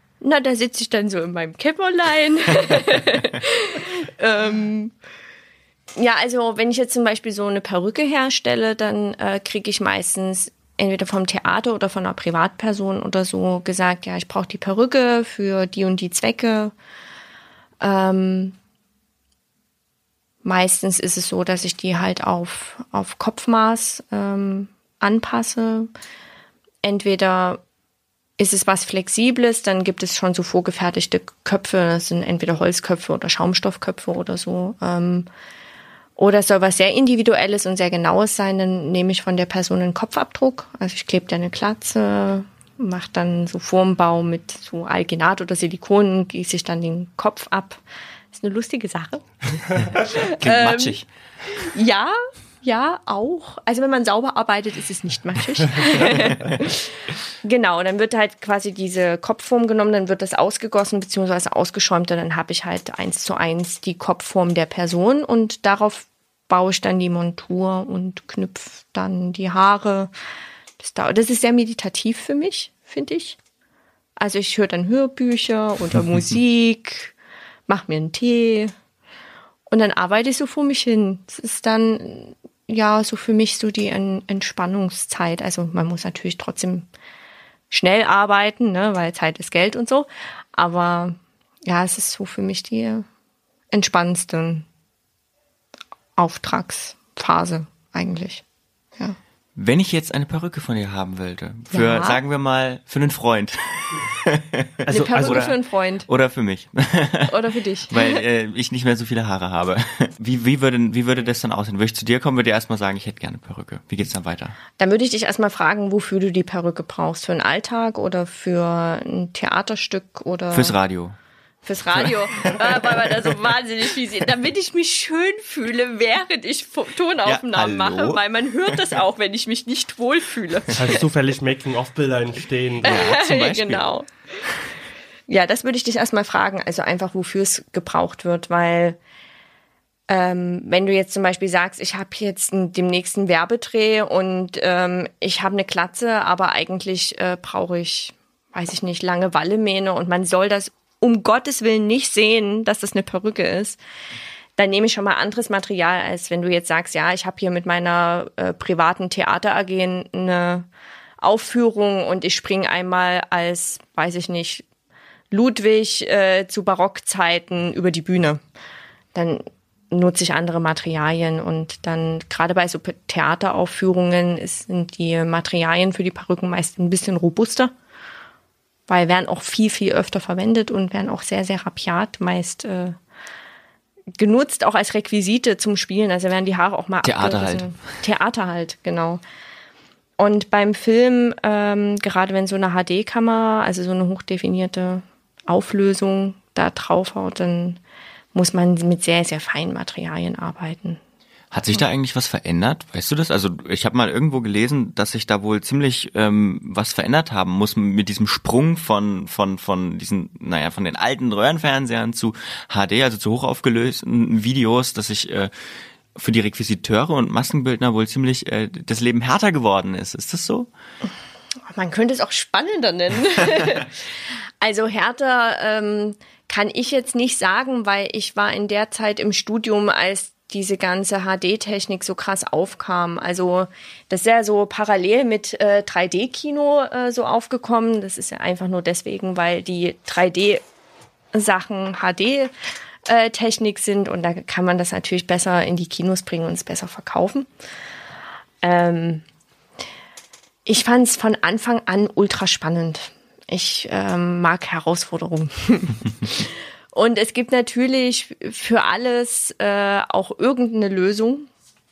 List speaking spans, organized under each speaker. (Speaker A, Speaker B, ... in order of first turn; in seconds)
Speaker A: 0.2-4.9, 6.0-16.7, 17.8-18.6, 20.4-25.9, 26.8-27.6, 28.4-35.3, 36.2-51.0, 51.5-70.1, 70.8-73.4, 74.2-77.1, 77.7-78.7, 79.7-86.9, 87.7-93.0, 93.7-94.7, 96.2-98.4, 101.7-102.2, 104.9-106.1, 107.3-108.2, 114.8-120.8, 121.7-131.0, 132.8-134.1, 135.3-139.0, 140.1-153.8, 154.6-160.7, 161.2-164.7, 165.3-168.4, 169.1-177.7, 178.9-183.0, 184.2-189.2, 190.2-197.8, 198.3-201.0, 221.7-223.9, 224.6-240.6, 241.3-242.5, 243.1-247.5, 248.6-249.2, 250.7-261.5
Speaker B: 50.2-51.1, 99.6-107.3, 107.9-114.6, 120.5-121.2, 122.0-123.2, 127.2-128.2, 132.8-133.8, 187.0-187.8, 201.5-215.5, 216.2-220.7
Speaker C: 104.9-105.4, 130.8-133.0